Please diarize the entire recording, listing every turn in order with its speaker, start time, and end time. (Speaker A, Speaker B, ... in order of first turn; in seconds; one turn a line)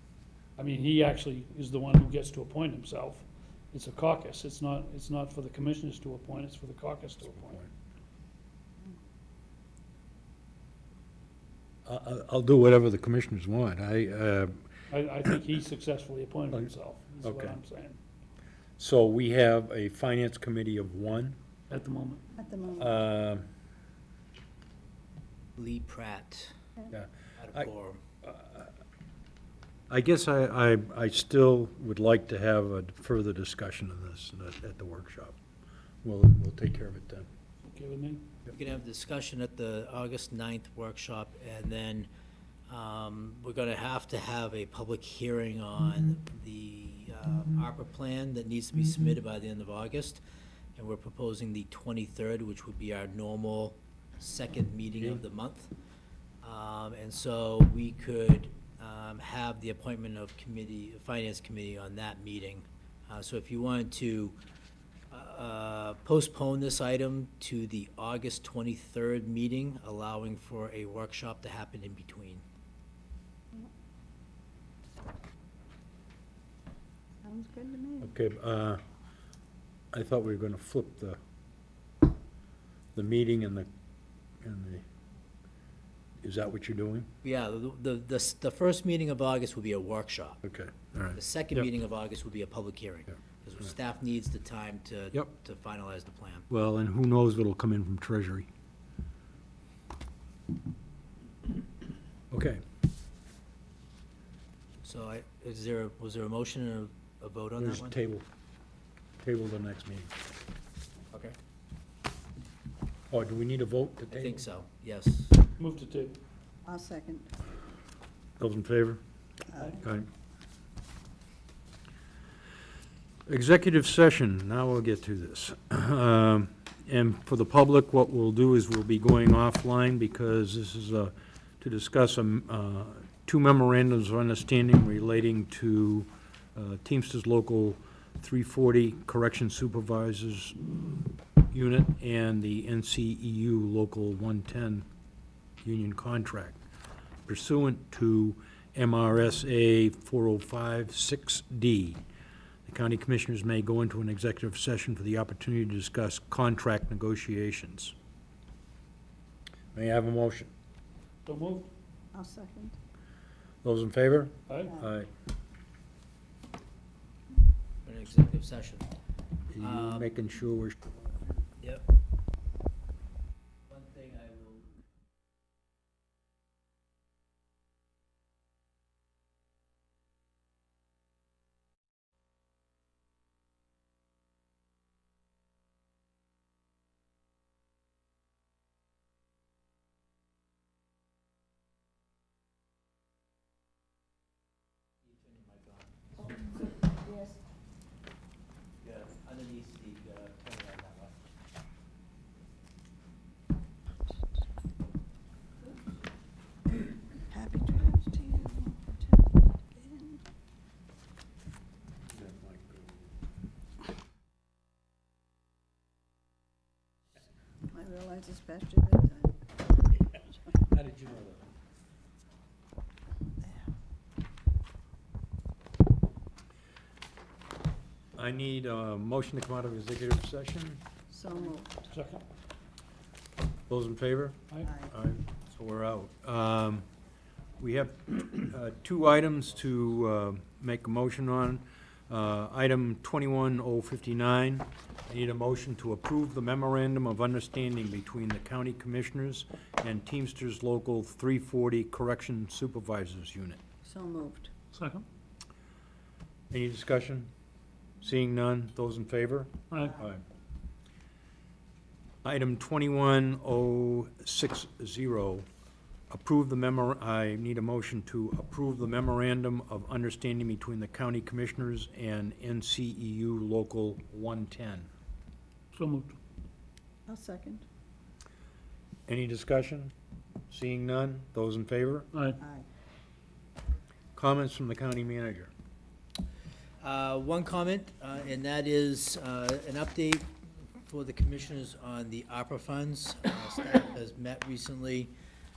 Speaker A: 0.6-7.6
Speaker B: 7.3-7.7
Speaker B: 11.9-14.6
Speaker A: 14.9-18.0
Speaker B: 17.2-17.6
Speaker B: 18.8-21.4
Speaker A: 21.7-22.2
Speaker C: 22.4-23.0
Speaker B: 22.8-23.5
Speaker D: 25.6-26.5
Speaker B: 26.9-27.7
Speaker D: 27.4-28.0
Speaker B: 28.2-28.7
Speaker B: 29.9-35.4
Speaker B: 36.0-37.3
Speaker A: 37.7-38.3
Speaker D: 38.5-42.1
Speaker D: 42.7-50.2
Speaker D: 50.8-55.7
Speaker D: 56.4-64.4
Speaker D: 65.1-72.4
Speaker C: 77.2-78.1
Speaker B: 78.0-78.8
Speaker B: 79.9-81.2
Speaker B: 82.9-83.7
Speaker B: 84.4-84.8
Speaker B: 86.2-87.1
Speaker D: 87.2-90.4
Speaker B: 90.4-91.7
Speaker D: 91.1-96.5
Speaker B: 96.5-98.5
Speaker B: 102.3-102.6
Speaker D: 104.8-107.9
Speaker B: 107.6-108.2
Speaker B: 109.2-110.1
Speaker D: 111.1-111.3
Speaker B: 113.1-114.4
Speaker D: 114.1-115.4
Speaker A: 115.6-116.2
Speaker C: 116.6-117.3
Speaker B: 118.4-119.0
Speaker C: 119.5-119.8
Speaker B: 119.8-120.0
Speaker B: 123.2-140.6
Speaker B: 141.5-144.8
Speaker B: 145.6-146.6
Speaker B: 147.2-152.0
Speaker B: 152.7-157.9
Speaker B: 159.7-160.5
Speaker A: 161.2-161.7
Speaker C: 162.1-162.8
Speaker B: 163.6-165.1
Speaker A: 164.5-164.8
Speaker C: 164.7-164.9
Speaker D: 167.8-168.9
Speaker B: 169.5-170.8
Speaker D: 169.6-170.1
Speaker D: 173.7-174.7
Speaker D: 195.1-195.9
Speaker C: 196.8-197.4
Speaker D: 198.8-201.2
Speaker C: 207.3-210.2
Speaker B: 212.0-213.1
Speaker C: 217.7-219.4
Speaker B: 220.5-221.5
Speaker C: 223.4-223.7
Speaker B: 228.2-230.8
Speaker C: 231.1-231.9
Speaker A: 231.9-232.2
Speaker B: 233.7-236.8
Speaker C: 234.7-234.9
Speaker B: 237.6-253.6
Speaker C: 253.8-254.5
Speaker A: 254.7-255.1
Speaker B: 256.5-257.3
Speaker B: 258.0-260.2
Speaker A: 259.7-260.0
Speaker B: 262.2-265.4
Speaker B: 266.1-274.9
Speaker A: 275.7-276.1
Speaker C: 277.1-277.6
Speaker B: 279.1-279.9
Speaker B: 280.5-282.1
Speaker A: 282.1-282.4
Speaker C: 282.4-282.6
Speaker B: 284.1-285.5
Speaker D: 286.8-290.3
Speaker D: 290.8-295.1